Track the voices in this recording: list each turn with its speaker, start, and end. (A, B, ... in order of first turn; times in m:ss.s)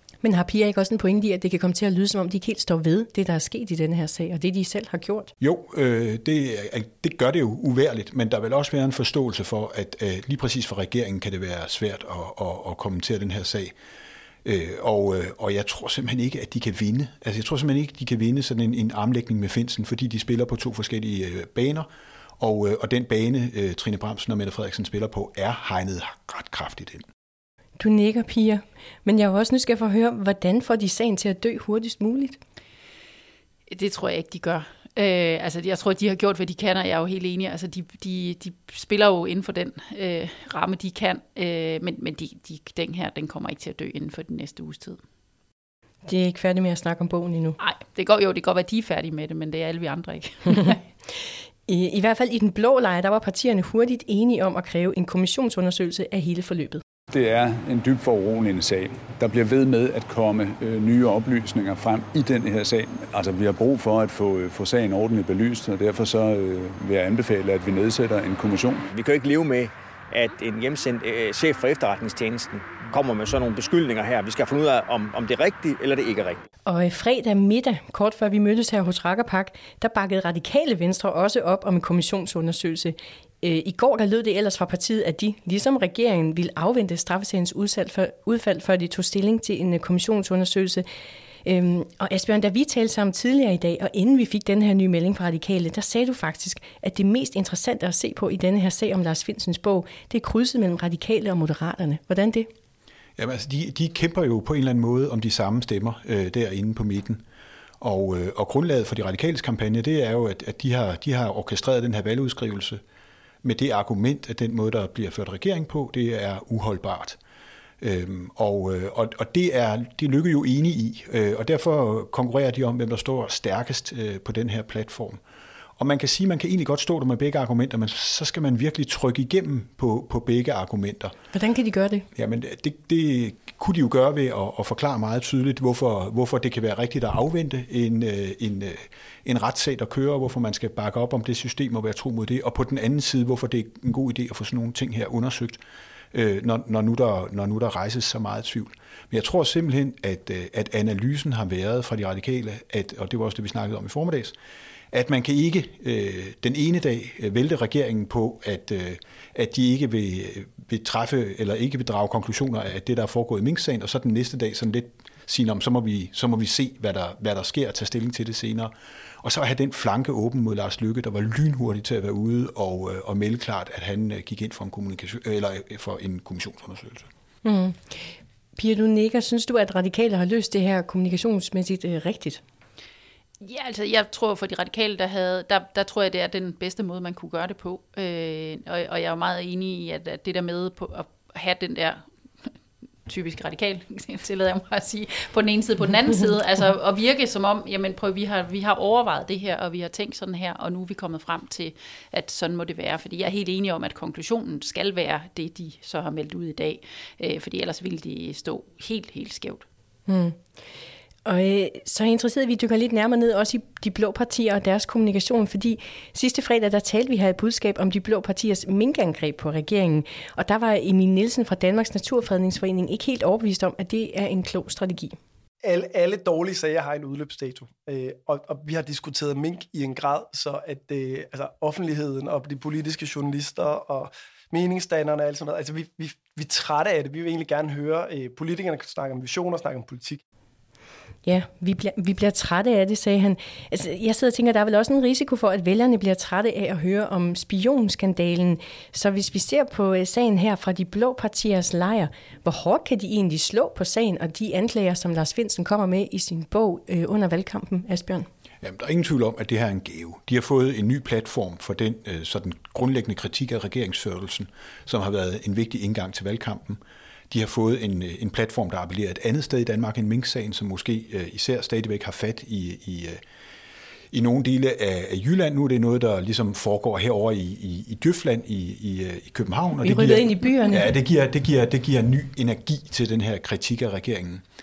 0:00.2-0:05.3 A
0:05.4-0:13.7 B
0:14.4-0:21.9 B
0:22.4-0:27.0 B
0:27.8-0:32.4 A
0:33.7-0:45.0 C
0:46.1-0:47.6 A
0:47.6-0:50.8 C
0:51.7-0:56.8 A
0:57.1-1:08.9 D
1:08.9-1:16.4 E
1:16.7-1:30.8 A
1:31.4-1:42.5 A
1:43.2-1:47.2 B
1:47.8-1:52.8 B
1:53.4-1:57.2 B
1:57.8-2:05.2 B
2:05.8-2:11.1 B
2:11.3-2:12.1 A
2:12.1-2:25.6 B
2:26.1-2:34.4 B
2:34.9-2:48.7 B
2:49.2-2:57.1 B
2:57.4-2:58.0 A
2:58.6-3:02.4 A
3:03.4-3:12.5 C
3:13.1-3:29.6 C
3:30.1-3:30.4 A
3:31.3-3:45.2 A
3:45.6-4:00.2 F
4:01.2-4:18.3 A
4:18.6-4:33.2 B
4:34.1-4:44.4 B
4:39.8-4:40.9 A